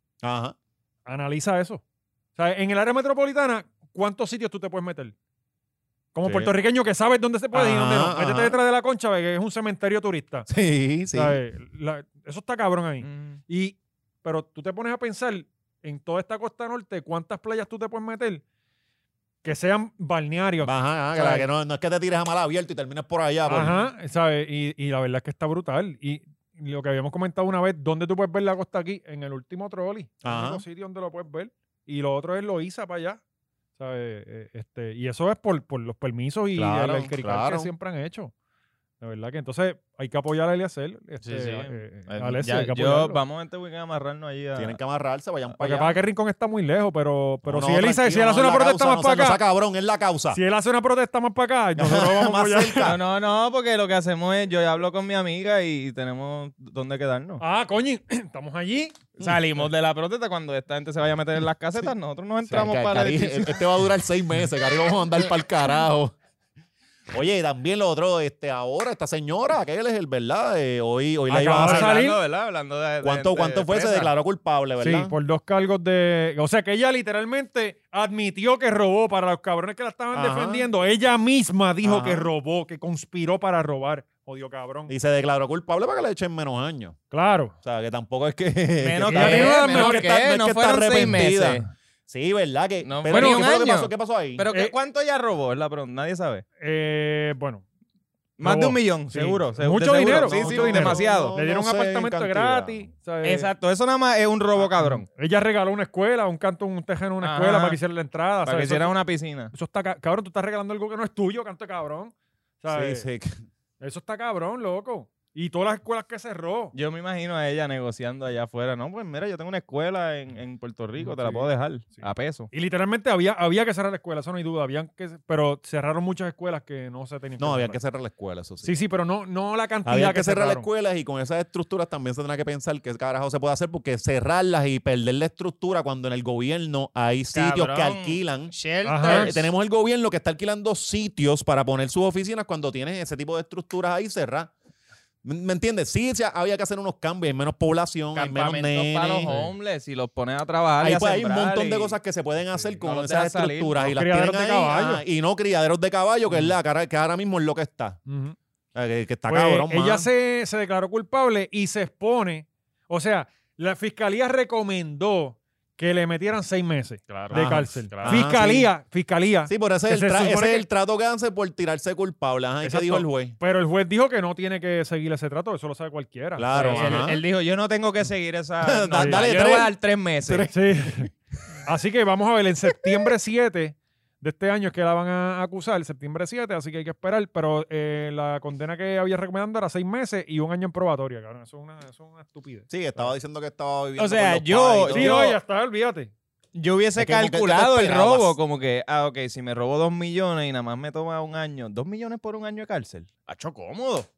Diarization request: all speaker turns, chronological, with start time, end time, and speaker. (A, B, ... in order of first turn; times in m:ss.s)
0:00.2-0:00.6 A
0:01.0-0:01.8 B
0:02.4-0:05.1 B
0:06.1-0:10.5 B
0:06.2-0:06.5 A
0:07.5-0:08.6 A
0:10.5-0:11.4 A
0:11.1-0:18.4 B
0:13.0-0:13.4 C
0:19.4-0:21.5 B
0:20.6-0:23.9 A
0:23.4-0:33.2 B
0:30.2-0:30.6 A
0:33.8-0:38.3 B
0:36.5-0:37.7 A
0:39.0-0:43.2 B
0:41.2-0:44.8 C
0:44.5-0:46.0 A
0:45.6-0:49.4 B
0:47.4-0:50.4 A
0:50.3-0:53.0 B
0:51.8-0:53.0 A
0:52.8-0:57.4 C
0:57.4-0:59.0 B
0:59.2-1:03.6 C
1:02.5-1:06.1 A
1:07.1-1:12.0 A
1:11.3-1:12.2 B
1:11.5-1:14.1 C
1:13.0-1:15.1 A
1:14.8-1:24.9 B
1:20.1-1:20.7 A
1:21.8-1:22.3 A
1:24.9-1:27.0 A
1:27.1-1:27.5 B
1:27.6-1:34.4 A
1:28.8-1:31.7 C
1:29.1-1:30.1 B
1:32.8-1:36.4 C
1:33.1-1:33.5 B
1:36.6-1:37.6 B
1:38.4-1:41.3 C
1:38.4-1:43.5 B
1:40.1-1:42.8 A
1:43.2-1:45.0 C
1:44.8-1:48.9 B
1:47.2-1:47.8 C
1:48.4-1:49.5 C
1:49.5-1:53.0 B
1:52.7-1:53.4 A
1:53.8-1:56.7 B
1:56.7-2:02.5 C
2:01.0-2:07.8 B
2:07.4-2:08.8 A
2:08.6-2:10.7 B
2:09.8-2:24.5 A
2:17.3-2:19.4 C
2:18.8-2:19.4 B
2:25.2-2:29.3 A
2:28.1-2:32.0 C
2:29.3-2:29.5 B
2:30.8-2:38.0 A
2:32.8-2:33.9 C
2:33.8-2:35.0 B
2:38.1-2:38.4 B
2:38.7-2:40.1 A
2:39.3-2:50.6 B
2:47.1-2:48.3 C
2:47.3-2:48.7 A
2:49.5-2:53.3 A
2:52.6-2:57.0 B
2:56.4-2:57.2 A
2:56.6-3:00.5 C
2:58.6-2:59.7 A
2:59.0-2:59.2 B
3:00.3-3:01.1 B
3:01.6-3:13.1 B
3:12.7-3:15.2 A
3:14.0-3:15.4 C
3:14.9-3:16.1 B
3:16.5-3:24.1 C
3:17.0-3:18.4 A